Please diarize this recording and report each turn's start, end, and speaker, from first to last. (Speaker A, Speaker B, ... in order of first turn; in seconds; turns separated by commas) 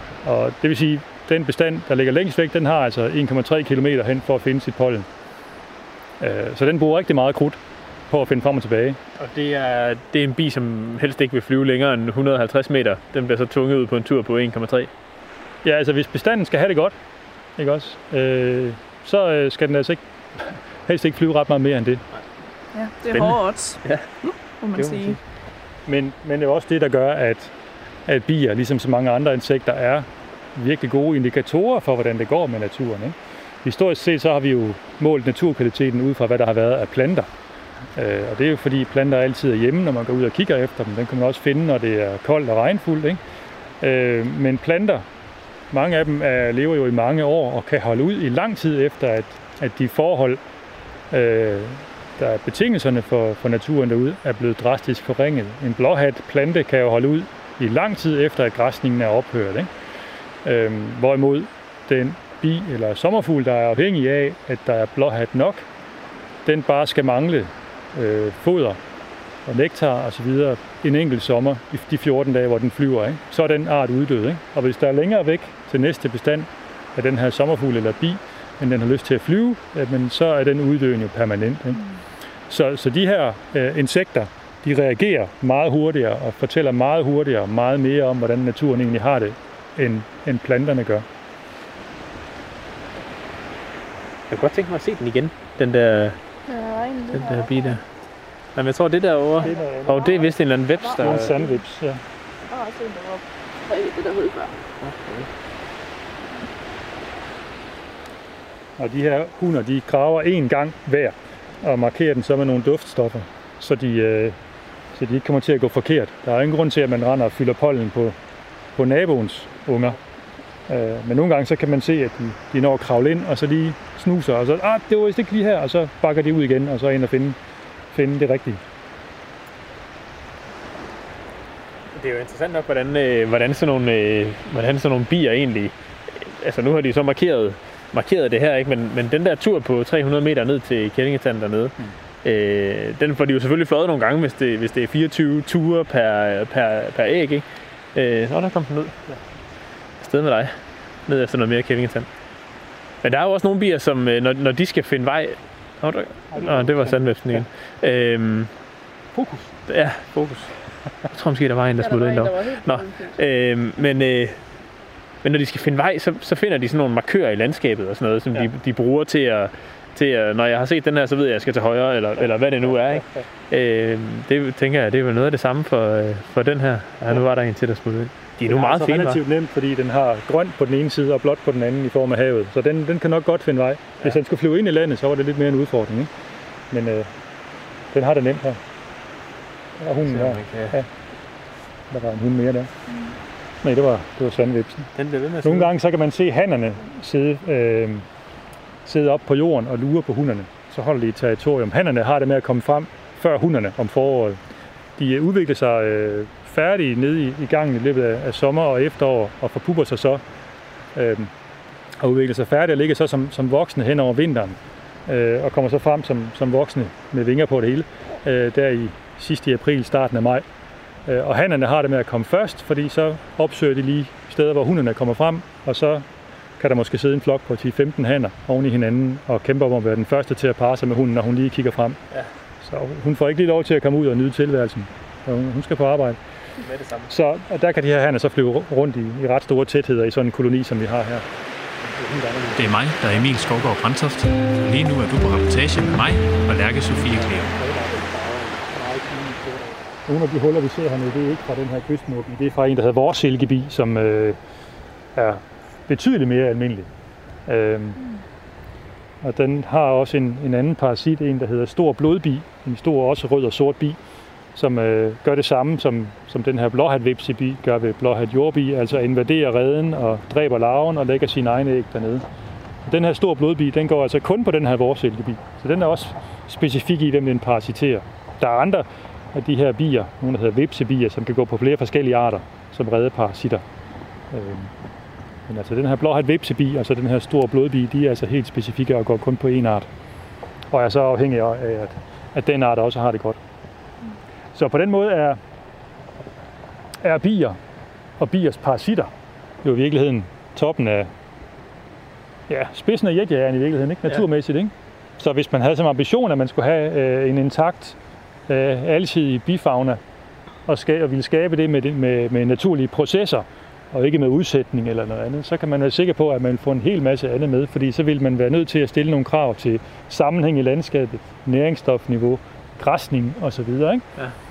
Speaker A: 0.2-5.0, Speaker A: 6.2-9.0, Speaker B: 9.2-14.9, Speaker A: 15.6-16.9, Speaker A: 17.6-22.0, Speaker C: 22.7-25.2, Speaker B: 23.1-24.1, Speaker B: 24.8-25.2, Speaker A: 25.9-27.5, Speaker A: 28.1-37.3, Speaker A: 38.0-43.2, Speaker A: 43.8-45.0, Speaker A: 45.7-50.4, Speaker A: 51.1-59.7, Speaker A: 60.5-65.6, Speaker A: 66.5-68.8, Speaker A: 69.5-81.8, Speaker A: 82.5-91.0, Speaker B: 94.3-96.2, Speaker C: 96.5-97.8, Speaker B: 97.1-97.8, Speaker B: 98.5-101.3, Speaker C: 99.4-101.6, Speaker A: 99.4-100.3, Speaker A: 101.0-102.0, Speaker C: 102.5-104.5, Speaker B: 104.8-105.3, Speaker A: 108.8-114.3, Speaker A: 114.9-118.2, Speaker A: 118.8-120.0, Speaker A: 120.7-127.4, Speaker A: 127.9-128.6, Speaker B: 131.9-149.0, Speaker B: 150.0-152.1, Speaker B: 153.0-158.5, Speaker A: 156.3-157.5, Speaker A: 159.1-159.5, Speaker B: 159.7-164.4, Speaker C: 161.8-163.2, Speaker B: 165.2-179.2, Speaker A: 178.5-186.1, Speaker A: 186.7-187.1, Speaker A: 187.9-188.6, Speaker A: 189.8-190.9, Speaker B: 190.0-190.7, Speaker A: 191.9-192.7, Speaker A: 193.6-194.9, Speaker B: 194.9-195.7, Speaker A: 195.4-198.0, Speaker A: 198.8-204.4, Speaker A: 205.0-210.2, Speaker A: 210.9-211.3, Speaker A: 212.0-220.4, Speaker A: 221.1-226.0, Speaker A: 226.6-232.0, Speaker A: 232.6-236.2, Speaker B: 236.6-237.1, Speaker A: 237.1-241.2, Speaker A: 241.9-242.8, Speaker B: 242.6-247.5, Speaker A: 247.0-254.4, Speaker A: 255.1-256.9, Speaker A: 257.5-258.0, Speaker A: 259.2-264.0, Speaker A: 264.5-272.2, Speaker A: 272.8-283.6, Speaker A: 284.3-284.7, Speaker A: 285.5-289.9, Speaker A: 290.7-293.4, Speaker A: 294.5-295.4, Speaker A: 297.0-297.6, Speaker A: 298.2-299.1, Speaker A: 299.6-301.1, Speaker A: 302.5-308.0, Speaker A: 308.5-310.0, Speaker A: 310.7-324.1